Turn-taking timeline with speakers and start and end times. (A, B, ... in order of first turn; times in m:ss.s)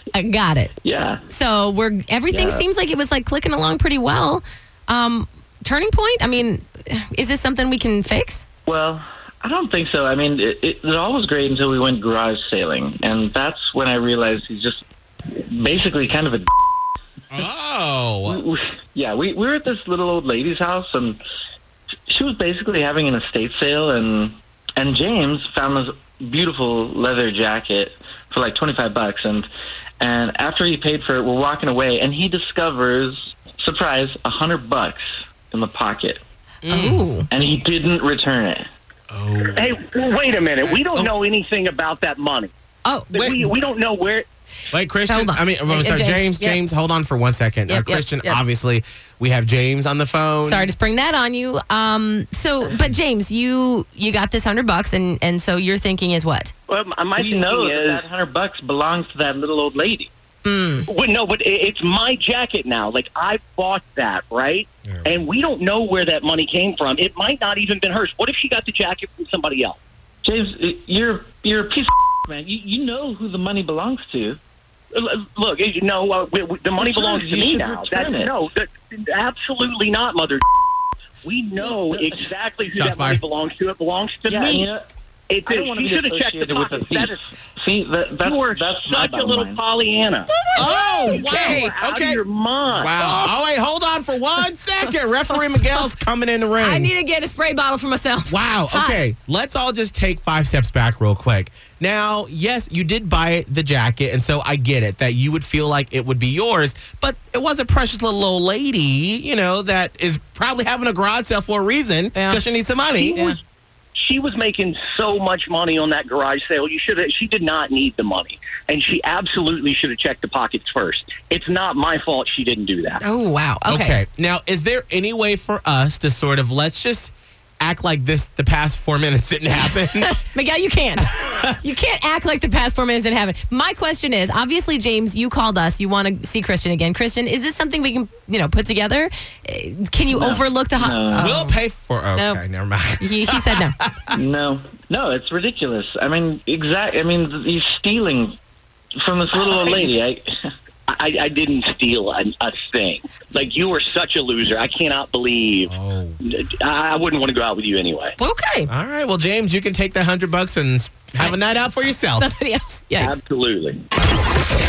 0:00.1-0:00.7 A
0:00.8-0:01.2 B
0:01.3-0:08.4 A
0:02.3-0:02.6 B
0:08.7-0:16.5 B
0:17.3-0:18.5 C
0:18.2-0:21.2 B
0:22.1-0:29.5 B
0:30.0-0:36.2 B
0:36.7-0:37.1 C
0:36.7-0:37.3 A
0:37.3-0:38.7 B
0:39.1-0:39.8 C
0:39.6-0:42.5 D
0:40.7-0:41.1 C
0:42.8-0:43.1 A
0:43.1-0:44.3 D
0:43.2-0:43.5 C
0:44.7-0:50.7 C
0:45.1-0:46.6 A
0:47.7-0:48.4 A
0:50.4-0:56.5 A
0:56.7-0:58.0 D
0:57.2-1:00.1 B
1:00.4-1:00.9 A
1:00.9-1:09.8 D
1:04.9-1:05.1 C
1:10.2-1:14.4 B
1:14.9-1:20.5 D
1:16.8-1:18.3 B
1:21.2-1:24.7 D
1:22.8-1:23.2 C
1:24.3-1:24.9 B
1:25.3-1:27.2 D
1:25.5-1:29.6 B
1:28.2-1:30.5 D
1:30.3-1:31.6 A
1:30.6-1:36.9 C
1:31.1-1:33.0 D
1:33.0-1:33.3 A
1:35.6-1:35.8 A
1:36.6-1:39.0 A
1:38.3-1:53.2 C
1:52.2-1:52.4 A
1:53.0-1:53.4 A
1:54.0-2:03.0 D
2:03.0-2:04.0 A
2:03.7-2:10.1 C
2:09.6-2:21.6 A
2:20.1-2:21.3 B
2:21.2-2:24.2 C
2:22.2-2:22.4 A
2:23.0-2:23.8 A
2:24.1-2:28.4 B
2:29.0-2:30.5 B
2:29.3-2:29.9 D
2:30.9-2:38.2 D
2:35.7-2:36.2 C
2:38.2-2:38.7 A
2:38.7-2:42.3 C
2:42.2-2:43.2 A
2:43.0-2:43.8 D